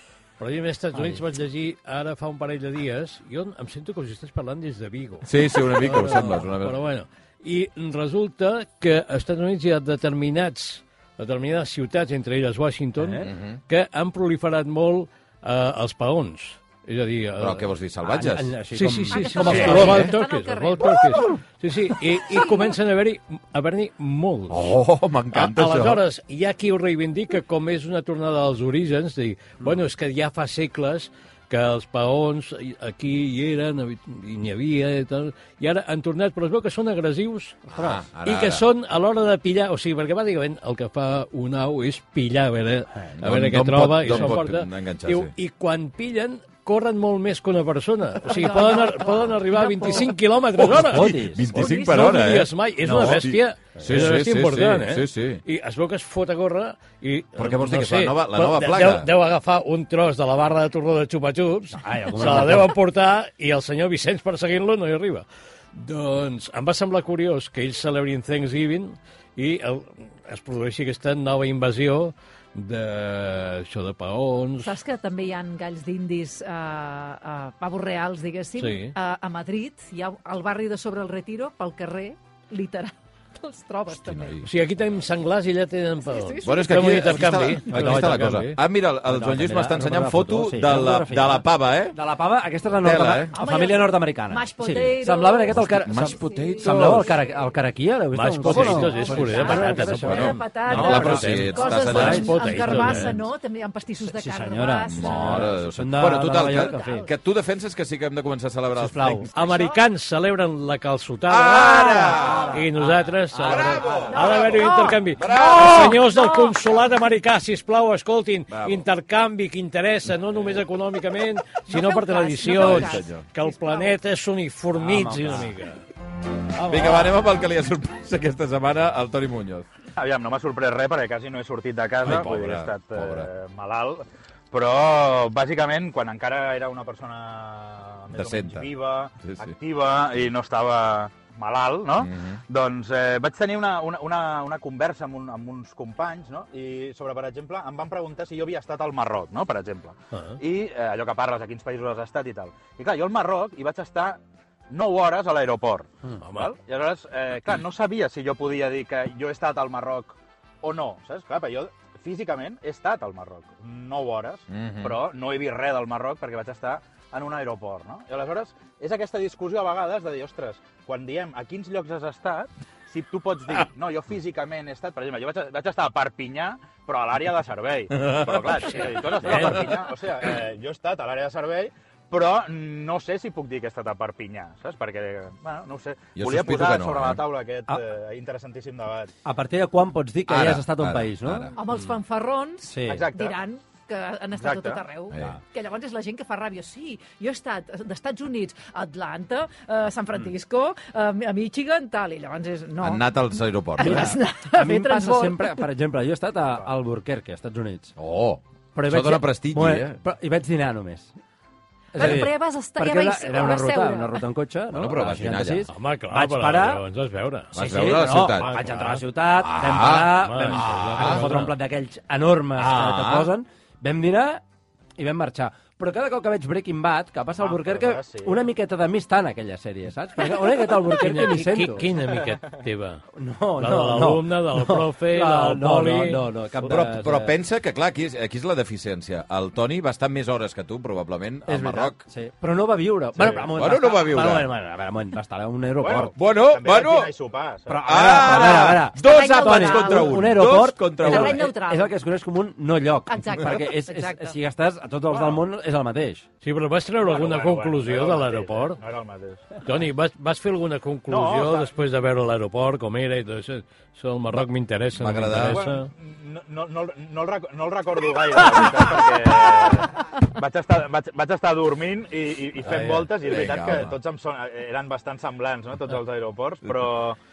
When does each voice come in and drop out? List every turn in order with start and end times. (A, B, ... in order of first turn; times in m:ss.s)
0:00.4-0:17.7 A
0:00.9-0:01.2 B
0:05.2-0:06.8 C
0:13.0-0:13.3 B
0:13.2-0:13.6 C
0:17.4-0:18.6 C
0:18.0-0:20.1 B
0:18.7-0:24.7 A
0:19.1-0:21.2 D
0:19.5-0:20.1 C
0:22.3-0:22.7 D
0:24.5-0:26.0 C
0:25.3-0:37.6 A
0:37.7-0:38.6 C
0:37.7-0:38.0 B
0:38.2-1:14.7 A
0:43.2-0:45.3 C
0:48.2-0:50.2 D
0:50.6-0:55.4 C
0:50.6-0:51.6 B
0:51.5-0:52.2 D
0:52.8-0:54.2 B
0:57.4-0:59.1 C
1:01.7-1:02.8 B
1:14.6-1:24.4 D
1:18.6-1:18.9 A
1:23.9-1:24.5 C
1:24.4-1:28.5 A
1:26.0-1:26.7 D
1:26.4-1:32.0 C
1:27.7-1:43.2 B
1:32.8-1:33.3 C
1:33.3-1:37.5 D
1:35.5-1:37.2 C
1:38.1-1:43.2 A
1:38.4-1:45.5 D
1:40.0-1:42.4 C
1:44.0-1:47.1 B
1:44.9-1:49.5 C
1:46.4-1:47.1 D
1:48.8-1:49.3 B
1:49.3-1:49.8 D
1:49.3-2:05.8 A
1:51.3-1:54.6 C
1:52.1-1:52.6 B
1:53.5-1:54.3 B
1:54.0-1:56.8 D
1:55.1-1:56.0 C
1:58.5-1:58.8 C
2:01.6-2:03.9 D
2:02.5-2:03.2 C
2:04.8-2:05.5 B
2:06.6-2:07.1 A
2:06.6-2:09.6 C
2:10.0-3:09.1 E
2:12.0-2:13.3 C
2:18.1-2:18.7 C
2:19.2-2:19.5 C
2:22.0-2:22.4 C
2:30.1-2:30.4 A
2:36.2-2:36.5 A
2:44.5-2:45.0 C
2:57.9-2:59.8 C
2:58.7-2:59.4 A
3:06.2-3:07.2 C
3:09.2-3:11.6 B
3:10.3-3:11.5 C
3:11.5-3:25.6 D
3:12.7-3:13.1 B
3:12.8-3:13.4 E
3:14.3-3:14.8 E
3:15.1-3:15.3 C
3:22.8-3:24.1 C
3:23.8-3:27.9 B
3:28.0-3:30.0 C
3:28.7-3:31.1 B
3:31.9-3:36.8 B
3:32.0-3:34.2 D
3:34.7-3:35.7 C
3:35.7-3:37.5 A
3:37.5-3:38.5 C
3:37.5-3:44.4 B
3:38.1-3:39.0 A
3:39.4-3:41.3 C
3:40.1-3:41.5 A
3:42.6-3:43.3 C
3:45.0-3:51.9 B
3:47.4-3:48.5 E
3:50.9-3:53.0 A
3:52.1-3:52.4 E
3:53.1-3:57.4 B
3:53.6-3:56.2 A
3:56.6-4:02.0 C
4:01.5-4:06.1 B
4:03.2-4:03.5 E
4:03.5-4:04.5 C
4:05.8-4:08.3 E
4:06.1-4:07.1 C
4:07.7-4:16.2 B
4:07.8-4:11.5 C
4:09.0-4:10.3 D
4:11.0-4:11.9 D
4:13.1-4:14.4 D
4:15.1-4:15.4 E
4:16.4-4:18.8 A
4:17.0-4:19.5 E
4:19.6-4:25.9 A
4:21.1-4:21.7 E
4:24.3-4:25.6 C
4:25.4-4:37.2 E
4:32.6-4:33.1 A
4:33.2-4:34.0 C